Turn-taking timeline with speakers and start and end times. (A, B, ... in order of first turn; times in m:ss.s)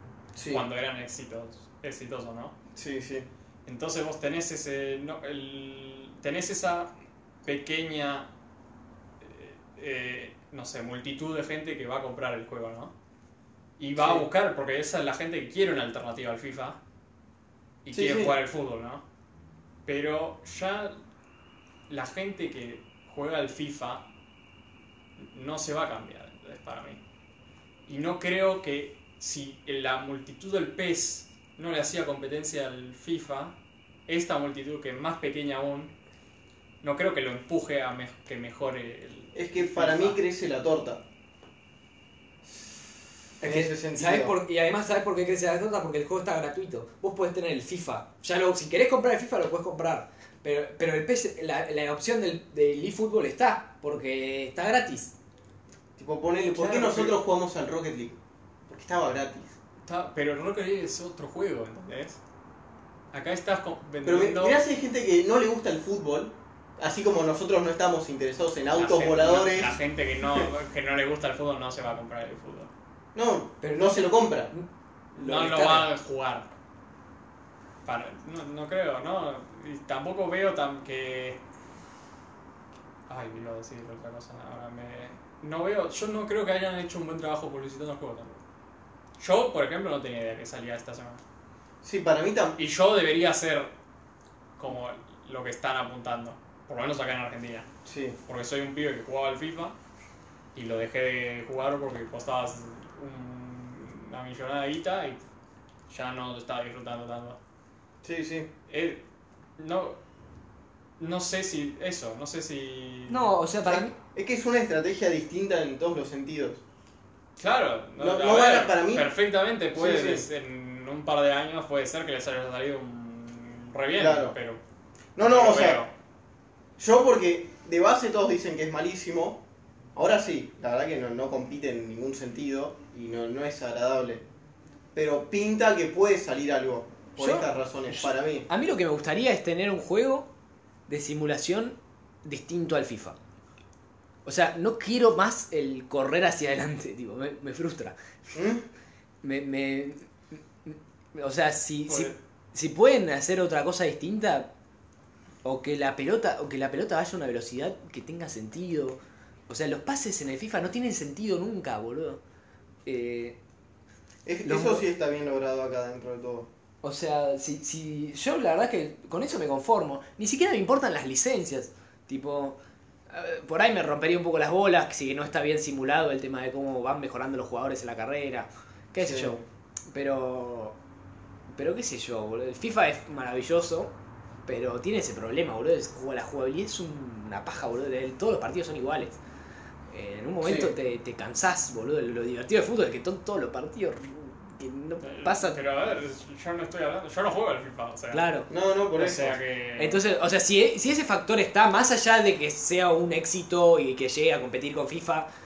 0:00.4-0:00.7 A
0:00.5-0:02.6 B
0:02.8-0:03.3 A
0:03.7-0:06.9 B
0:07.4-0:08.3 B
0:09.2-0:12.9 B
0:13.8-0:16.8 B
0:14.0-0:14.3 A
0:17.8-0:19.0 B
0:17.9-0:18.4 A
0:19.9-0:21.0 B
0:21.9-0:24.0 B
0:25.2-0:27.0 B
0:27.9-0:33.6 B
0:34.1-0:35.9 B
0:36.8-0:40.2 B
0:39.3-0:41.0 A
0:43.4-0:44.4 A
0:43.4-0:55.2 C
0:56.0-0:58.2 A
0:56.6-0:57.2 B
0:58.7-0:59.5 A
0:59.9-1:02.2 B
1:03.1-1:04.6 B
1:04.0-1:09.8 A
1:08.8-1:12.7 B
1:13.2-1:14.5 A
1:13.6-1:14.7 C
1:15.2-1:16.5 B
1:15.2-1:15.9 C
1:17.8-1:21.4 B
1:23.1-1:28.4 B
1:29.2-1:31.2 B
1:31.8-1:32.6 A
1:32.6-1:33.7 B
1:34.6-1:37.7 B
1:37.8-1:38.2 A
1:38.3-1:39.8 B
1:40.6-1:45.2 B
1:45.9-1:47.4 B
1:48.0-1:48.5 A
1:48.7-1:49.0 B
1:49.6-1:50.0 B
1:51.0-1:53.3 B
1:53.1-1:54.0 C
1:53.7-1:56.6 A
1:57.4-2:04.6 B
1:58.0-1:59.1 A
1:59.8-2:00.3 A
2:04.0-2:04.4 A
2:05.2-2:05.9 A
2:05.2-2:05.9 B
2:06.8-2:09.4 A
2:10.0-2:14.2 A
2:15.0-2:18.5 A
2:17.2-2:20.3 C
2:20.9-2:23.2 C
2:24.2-2:28.0 C
2:28.3-2:28.6 A
2:29.2-2:34.5 C
2:31.9-2:32.2 B
2:35.4-2:42.2 C
2:42.8-2:43.4 C
2:44.3-2:46.5 A
2:44.4-2:44.9 C
2:46.8-2:52.6 C
2:53.1-3:00.8 C
2:59.0-2:59.4 A
3:01.5-3:03.9 C
3:04.5-3:09.2 C
3:09.9-3:15.6 C
3:10.4-3:10.7 A
3:15.0-3:18.3 B
3:18.1-3:18.5 C
3:18.5-3:19.4 A
3:19.0-3:20.0 B
3:19.8-3:25.3 C